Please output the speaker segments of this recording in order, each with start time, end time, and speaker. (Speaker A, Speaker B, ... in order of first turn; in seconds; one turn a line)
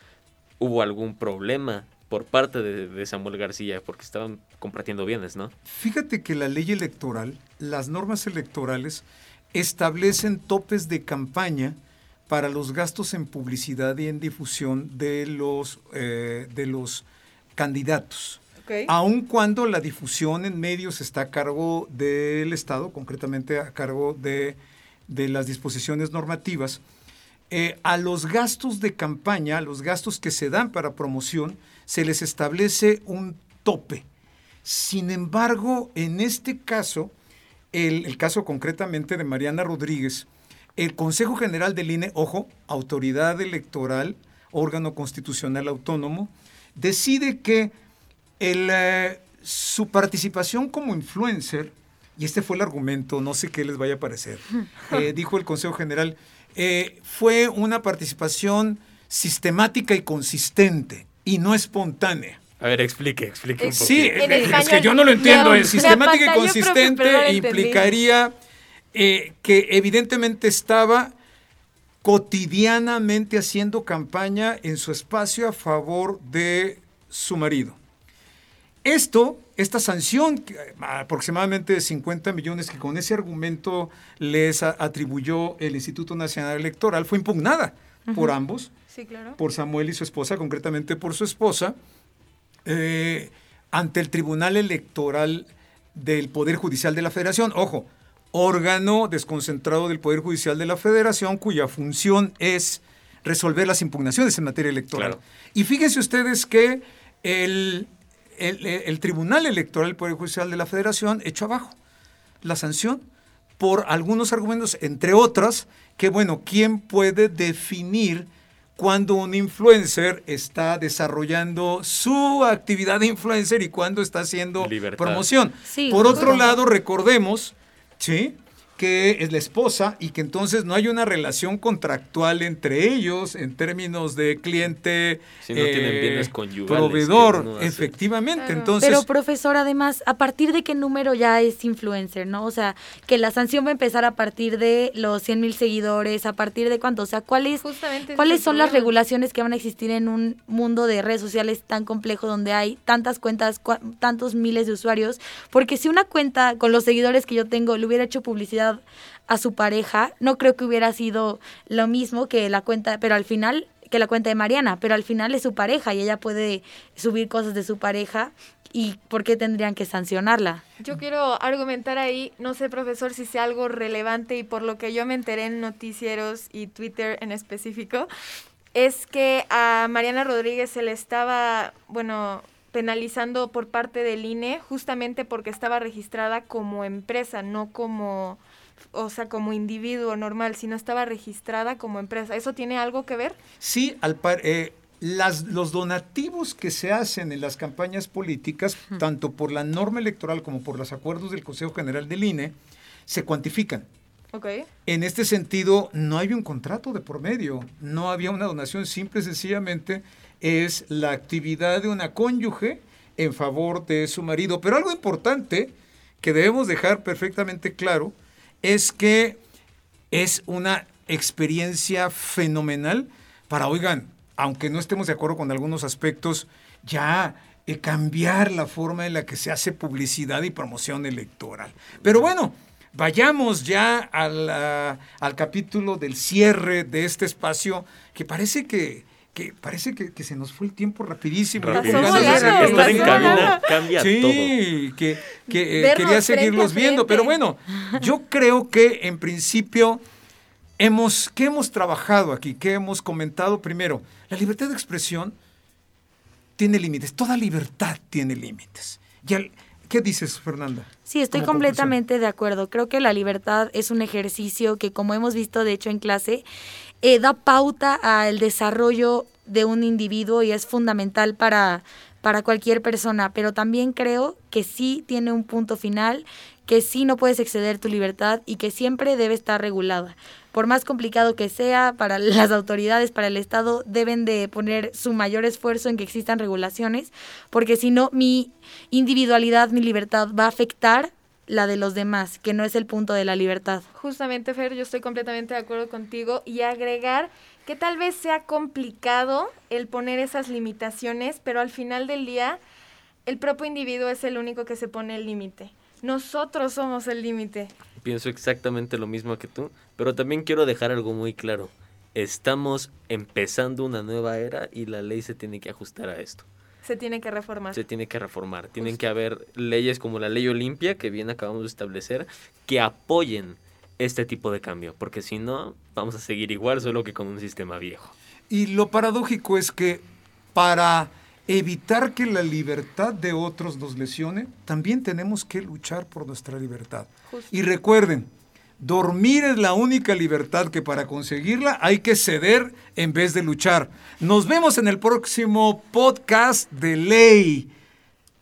Speaker A: 0.6-5.5
Speaker B: 5.7-11.8
Speaker B: 12.3-17.0
Speaker B: 17.6-26.8
Speaker C: 18.6-18.9
Speaker B: 27.5-34.0
Speaker B: 34.6-37.1
Speaker B: 37.7-47.7
Speaker B: 48.4-62.4
Speaker A: 62.6-64.7
Speaker C: 63.6-67.9
Speaker B: 63.8-68.3
Speaker D: 65.2-65.8
Speaker B: 68.9-71.1
Speaker B: 72.0-77.8
Speaker B: 78.8-88.7
Speaker D: 88.1-88.3
Speaker C: 88.9-89.4
Speaker B: 89.4-91.8
Speaker B: 92.6-111.8
Speaker A: 104.9-105.2
Speaker B: 112.4-113.0
Speaker B: 113.6-139.1
Speaker A: 124.6-125.2
Speaker D: 125.7-126.5
Speaker C: 126.2-126.5
Speaker A: 135.4-137.9
Speaker C: 138.4-138.7
Speaker D: 138.8-147.6
Speaker C: 147.6-148.9
Speaker D: 148.1-170.6
Speaker C: 170.8-178.1
Speaker C: 178.7-188.4
Speaker C: 188.9-193.4
Speaker B: 193.6-202.5
Speaker B: 203.1-203.8
Speaker C: 204.3-204.7
Speaker B: 204.8-219.4
Speaker B: 220.1-250.0
Speaker A: 241.6-244.5
Speaker C: 241.7-243.7
Speaker D: 242.1-243.4
Speaker C: 245.8-247.3
Speaker B: 250.8-255.3
Speaker B: 256.6-261.9
Speaker D: 261.1-266.4
Speaker D: 267.0-293.9
Speaker C: 293.9-302.6
Speaker C: 303.2-307.7
Speaker A: 308.0-316.4
Speaker C: 316.8-317.8
Speaker A: 317.7-328.1
Speaker B: 328.5-338.3
Speaker B: 338.8-347.7